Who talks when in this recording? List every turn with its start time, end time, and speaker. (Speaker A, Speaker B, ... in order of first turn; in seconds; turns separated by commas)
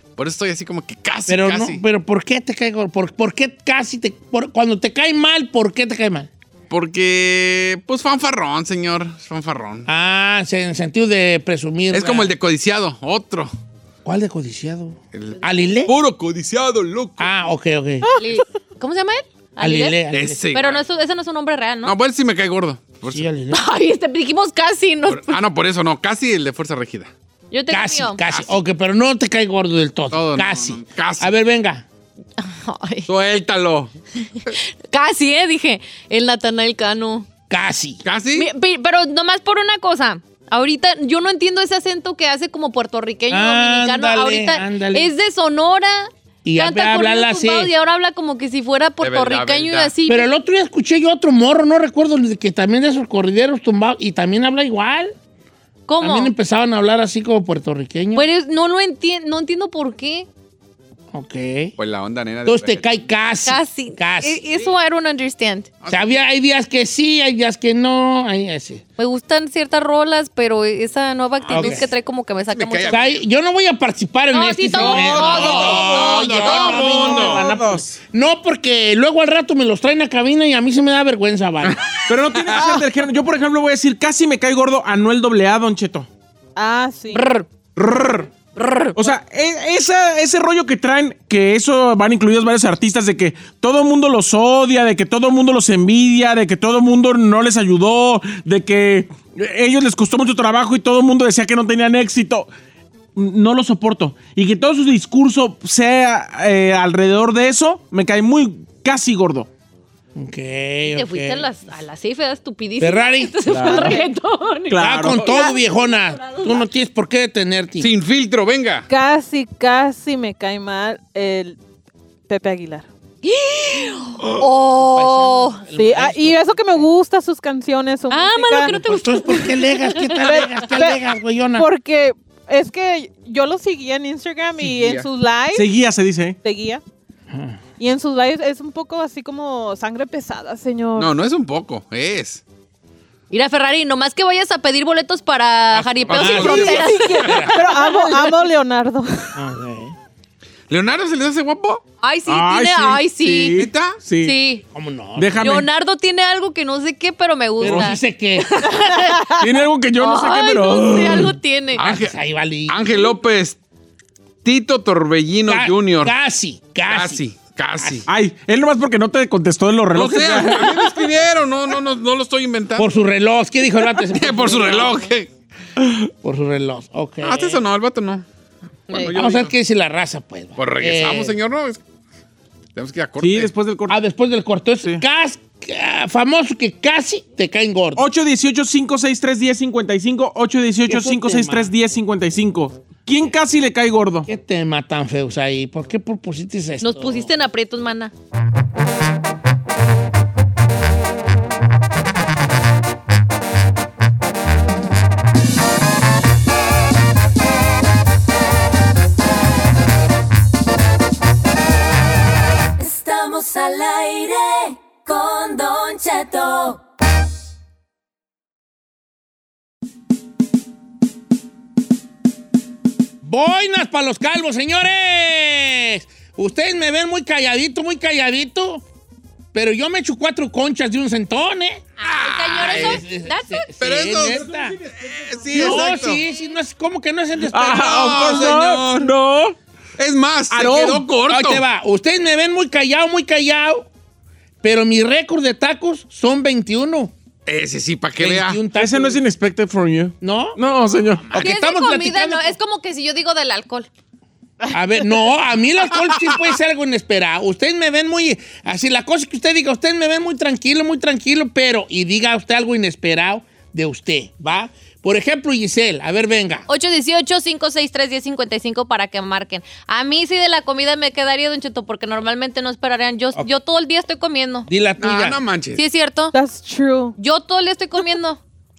Speaker A: 0.2-1.8, Speaker B: 1.3-6.3, Speaker A: 6.7-9.9, Speaker B: 9.9-12.3, Speaker A: 11.9-13.5, Speaker B: 14.1-15.9, Speaker A: 15.1-17.3, Speaker B: 17.2-18.1, Speaker C: 18.0-18.4, Speaker D: 18.1-21.9, Speaker B: 19.6-20.5, Speaker A: 20.1-20.8, Speaker A: 21.8-23.3, Speaker B: 23.1-23.6, Speaker D: 23.5-25.4, Speaker A: 25.1-27.1, Speaker D: 27.5-28.2, Speaker B: 27.7-31.9, Speaker A: 28.3-28.6, Speaker A: 30.1-31.3, Speaker D: 32.4-33.1, Speaker A: 33.1-33.9, Speaker D: 34.5-37.3, Speaker B: 37.5-38.0, Speaker A: 38.0-38.5, Speaker D: 38.4-50.3, Speaker B: 43.3-45.1, Speaker B: 46.5-47.7, Speaker A: 49.0-49.9, Speaker B: 50.1-55.1, Speaker D: 55.9-56.3, Speaker B: 56.0-58.3, Speaker D: 58.1-60.3, Speaker B: 61.1-61.8, Speaker A: 61.8-62.9, Speaker B: 62.5-64.4, Speaker D: 63.5-65.7, Speaker A: 65.8-66.1, Speaker B: 65.9-68.8, Speaker D: 69.0-73.1, Speaker A: 71.5-71.9, Speaker B: 71.5-71.9, Speaker A: 72.5-73.1, Speaker B: 72.9-81.8, Speaker D: 74.3-77.0, Speaker A: 74.8-77.4, Speaker E: 76.7-78.0, Speaker A: 81.6-82.7, Speaker E: 82.1-86.1, Speaker C: 86.6-87.2, Speaker D: 87.1-87.5, Speaker E: 87.8-88.3, Speaker D: 88.5-89.0, Speaker E: 89.0-102.5, Speaker E: 103.2-109.5, Speaker B: 110.2-111.5, Speaker D: 110.9-116.6, Speaker B: 112.8-113.9, Speaker E: 113.5-114.0, Speaker C: 113.7-114.0, Speaker E: 114.7-115.3, Speaker B: 114.8-117.9, Speaker A: 117.8-118.9, Speaker C: 118.9-121.6, Speaker C: 122.3-122.9, Speaker D: 123.2-125.6, Speaker B: 124.2-126.9, Speaker C: 125.8-128.7, Speaker D: 128.1-130.9, Speaker B: 128.7-131.7, Speaker C: 130.2-131.0, Speaker C: 131.6-135.7, Speaker A: 134.7-135.0, Speaker E: 135.5-136.4, Speaker C: 136.4-136.8, Speaker B: 137.3-137.6, Speaker C: 137.8-141.1, Speaker A: 140.9-142.4, Speaker D: 143.3-148.1, Speaker A: 145.7-147.3, Speaker B: 146.1-147.7, Speaker C: 146.2-149.4, Speaker B: 149.3-149.9, Speaker A: 150.7-151.8, Speaker D: 152.0-153.6, Speaker E: 152.3-154.3, Speaker A: 153.6-154.0, Speaker D: 154.2-154.6, Speaker B: 154.7-155.5, Speaker E: 155.2-155.7, Speaker D: 155.4-159.2, Speaker B: 157.6-158.5, Speaker E: 157.6-157.9, Speaker C: 158.9-159.4, Speaker E: 159.4-161.3, Speaker D: 160.0-161.8, Speaker A: 161.8-162.2, Speaker B: 161.8-162.8, Speaker A: 162.7-163.6, Speaker A: 164.4-166.1, Speaker B: 165.5-167.2, Speaker A: 166.9-168.1, Speaker B: 167.8-168.1, Speaker E: 168.1-170.8, Speaker A: 169.9-172.9, Speaker B: 172.8-175.1, Speaker A: 174.0-175.3, Speaker B: 176.2-177.6, Speaker A: 177.2-178.2, Speaker A: 178.9-179.5, Speaker B: 179.1-181.4, Speaker A: 180.6-181.8, Speaker A: 182.8-183.5, Speaker E: 183.2-184.0, Speaker B: 183.9-188.0, Speaker E: 188.0-194.3, Speaker B: 190.9-191.7, Speaker B: 194.3-197.3, Speaker D: 196.8-198.1, Speaker F: 212.8-216.8, Speaker B: 223.2-228.8, Speaker B: 229.5-231.9, Speaker D: 232.0-233.7, Speaker A: 232.0-233.0, Speaker B: 232.5-234.8, Speaker A: 233.8-236.2, Speaker B: 235.5-238.5, Speaker E: 235.5-235.8, Speaker E: 237.5-239.6, Speaker A: 237.7-239.1, Speaker A: 240.0-241.6, Speaker E: 240.5-241.1, Speaker B: 241.2-243.9, Speaker B: 244.6-247.1, Speaker A: 247.5-248.6, Speaker B: 248.2-249.2, Speaker E: 248.8-251.4, Speaker B: 250.2-250.6, Speaker B: 251.3-252.6, Speaker D: 251.4-253.9, Speaker B: 254.7-266.7, Speaker D: 266.7-274.7, Speaker B: 274.7-275.4, Speaker A: 275.0-275.8, Speaker D: 275.8-276.4, Speaker C: 276.3-277.2, Speaker D: 277.2-278.4